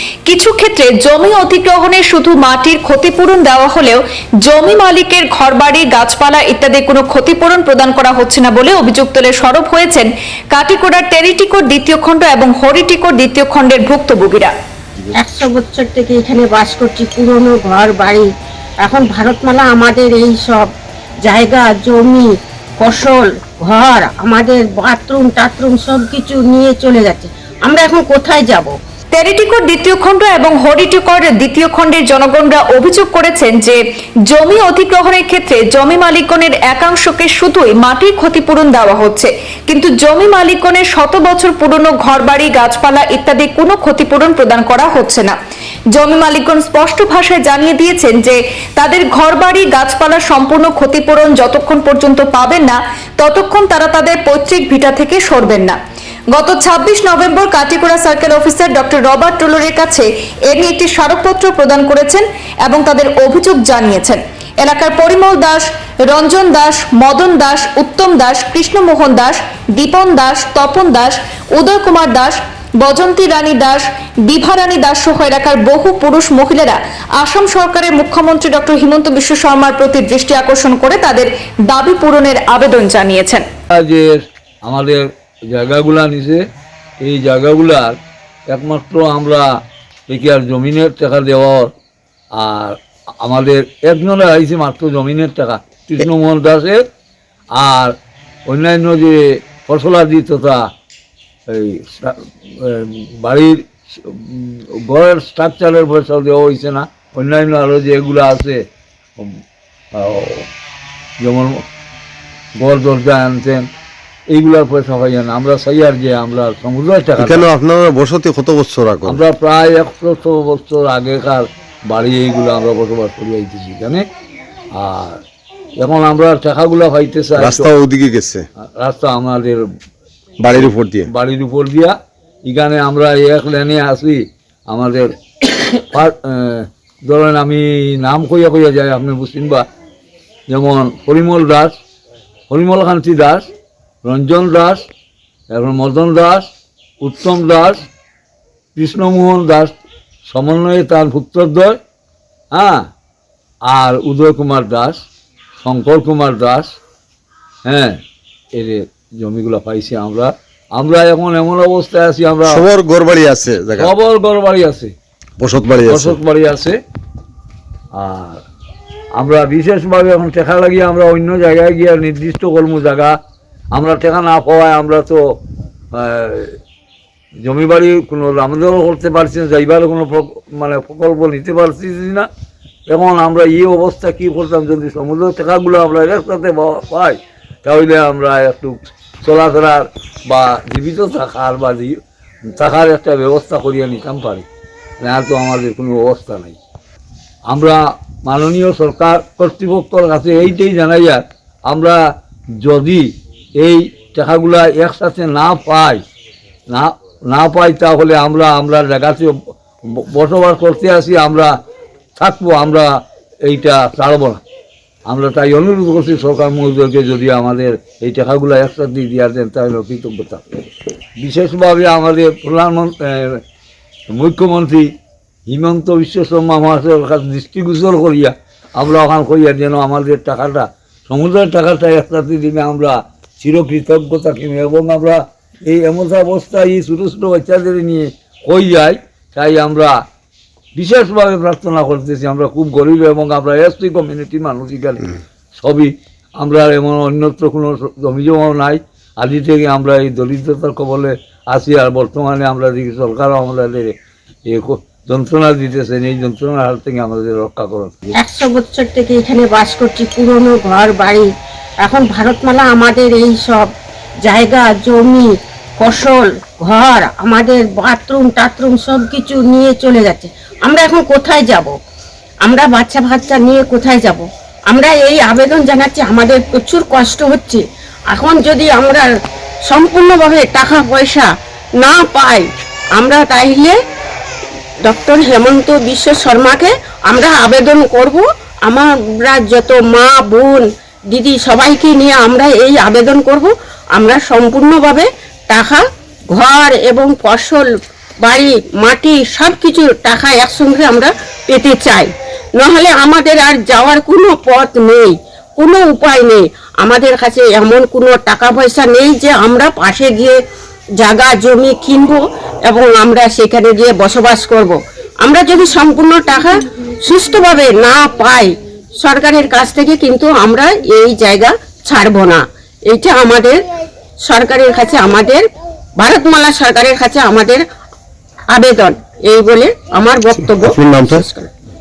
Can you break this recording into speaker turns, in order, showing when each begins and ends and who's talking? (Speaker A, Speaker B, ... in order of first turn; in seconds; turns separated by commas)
Speaker A: 0.3-14.5, Speaker B: 15.2-18.3, Speaker B: 18.8-20.7, Speaker B: 21.2-28.7, Speaker A: 29.1-45.4, Speaker A: 46.0-55.8, Speaker A: 56.3-83.5, Speaker C: 83.7-86.4, Speaker C: 87.0-88.0, Speaker C: 88.5-89.6, Speaker C: 90.1-91.7, Speaker C: 92.3-96.8, Speaker C: 97.5-98.0, Speaker C: 98.5-100.7, Speaker C: 101.5-108.6, Speaker C: 110.0-110.5, Speaker C: 111.2-111.6, Speaker C: 112.6-113.7, Speaker C: 114.3-117.5, Speaker D: 117.2-119.2, Speaker C: 119.0-124.0, Speaker C: 124.8-125.2, Speaker C: 125.8-127.7, Speaker D: 127.4-128.5, Speaker C: 128.8-129.6, Speaker D: 130.4-131.1, Speaker C: 130.6-135.2, Speaker C: 135.7-139.7, Speaker C: 140.5-141.8, Speaker C: 142.5-143.5, Speaker C: 144.0-144.9, Speaker C: 145.5-146.5, Speaker C: 147.0-147.9, Speaker C: 148.8-151.8, Speaker C: 152.5-152.9, Speaker C: 153.7-155.0, Speaker C: 155.6-156.8, Speaker C: 157.7-158.0, Speaker C: 158.5-162.7, Speaker D: 162.4-163.9, Speaker C: 163.8-164.9, Speaker D: 165.4-166.2, Speaker C: 165.7-166.8, Speaker C: 167.9-168.4, Speaker C: 169.2-173.2, Speaker C: 173.7-175.2, Speaker C: 175.9-176.6, Speaker C: 177.4-182.3, Speaker C: 182.9-194.4, Speaker C: 195.0-196.6, Speaker C: 197.5-202.0, Speaker C: 202.6-206.0, Speaker C: 206.7-211.6, Speaker C: 212.2-212.9, Speaker C: 213.4-214.4, Speaker C: 215.1-220.4, Speaker C: 221.2-223.4, Speaker C: 224.1-224.9, Speaker C: 225.5-240.0, Speaker C: 240.8-253.9, Speaker C: 254.5-258.1, Speaker B: 258.1-261.3, Speaker B: 261.8-263.7, Speaker B: 264.2-271.7, Speaker B: 272.4-279.1, Speaker B: 279.7-283.8, Speaker B: 284.8-297.7, Speaker B: 298.2-310.4, Speaker B: 311.0-323.6, Speaker B: 324.2-327.6, Speaker B: 328.5-331.5, Speaker D: 330.4-331.2